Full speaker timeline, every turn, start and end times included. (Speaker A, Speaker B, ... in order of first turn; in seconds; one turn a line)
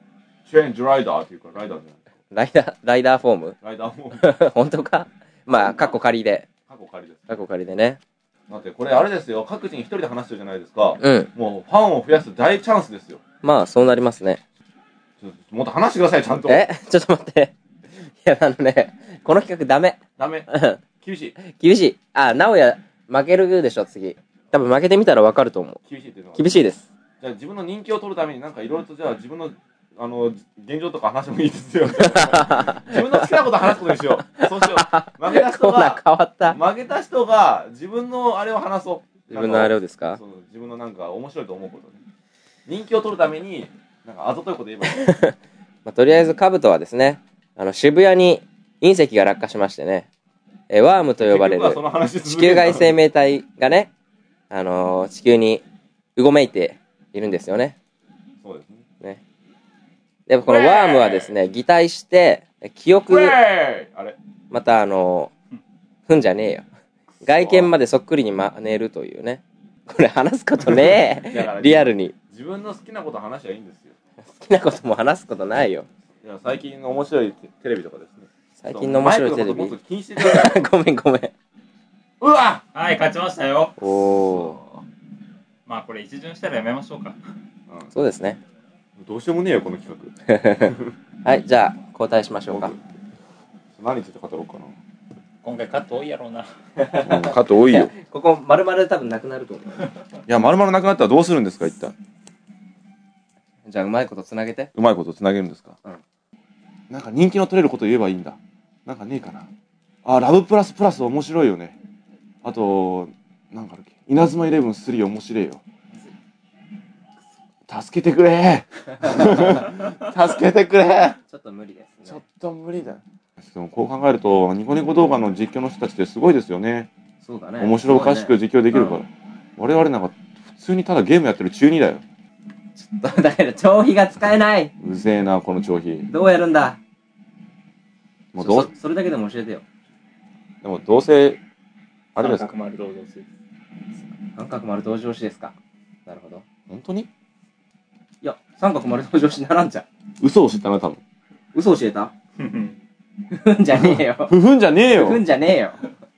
Speaker A: 0.5-2.0
Speaker B: 2.3-3.6
Speaker A: 3.6-4.3
Speaker B: 4.2-6.5
Speaker A: 5.5-5.8
Speaker A: 6.7-7.3
Speaker B: 7.3-8.0
Speaker A: 8.5-13.2
Speaker B: 11.0-11.3
Speaker B: 13.4-14.4
Speaker A: 15.2-16.7
Speaker B: 16.4-20.8
Speaker A: 20.2-20.5
Speaker A: 21.0-21.4
Speaker B: 21.4-25.8
Speaker A: 25.9-26.6
Speaker B: 26.4-26.9
Speaker A: 27.2-42.0
Speaker B: 32.0-33.3
Speaker B: 34.3-36.6
Speaker B: 39.3-40.2
Speaker A: 42.7-45.1
Speaker B: 44.8-50.1
Speaker B: 50.7-53.9
Speaker A: 51.2-53.0
Speaker B: 54.5-55.6
Speaker B: 56.2-57.8
Speaker A: 58.4-58.8
Speaker B: 60.3-63.4
Speaker A: 60.4-61.4
Speaker A: 63.0-64.2
Speaker B: 64.5-65.3
Speaker B: 66.1-66.7
Speaker A: 67.2-67.7
Speaker B: 67.2-72.2
Speaker A: 70.6-74.0
Speaker B: 74.2-75.9
Speaker A: 76.2-80.6
Speaker B: 78.6-81.3
Speaker A: 82.2-82.6
Speaker C: 82.8-83.8
Speaker B: 83.8-84.6
Speaker A: 83.8-84.6
Speaker C: 85.7-87.2
Speaker B: 87.9-88.4
Speaker A: 89.0-90.9
Speaker B: 90.3-92.8
Speaker A: 92.5-92.8
Speaker A: 93.8-94.8
Speaker C: 95.4-96.5
Speaker B: 96.8-99.9
Speaker A: 97.0-97.9
Speaker A: 100.3-102.0
Speaker B: 103.7-104.7
Speaker A: 104.8-105.8
Speaker A: 106.9-109.5
Speaker A: 110.0-111.8
Speaker A: 112.4-115.6
Speaker A: 117.7-121.2
Speaker B: 119.0-119.5
Speaker B: 121.3-122.2
Speaker A: 122.1-126.9
Speaker B: 127.2-129.0
Speaker A: 127.6-132.0
Speaker B: 132.8-134.7
Speaker A: 134.8-136.1
Speaker B: 136.1-136.8
Speaker A: 138.3-138.7
Speaker B: 138.4-139.6
Speaker A: 140.6-141.4
Speaker A: 142.2-142.5
Speaker C: 142.2-143.3
Speaker B: 144.3-145.6
Speaker B: 146.1-146.4
Speaker A: 146.7-147.1
Speaker B: 148.2-149.9
Speaker A: 150.2-151.0
Speaker B: 151.5-152.1
Speaker C: 152.4-152.8
Speaker B: 153.3-154.3
Speaker A: 153.8-155.2
Speaker B: 154.9-155.8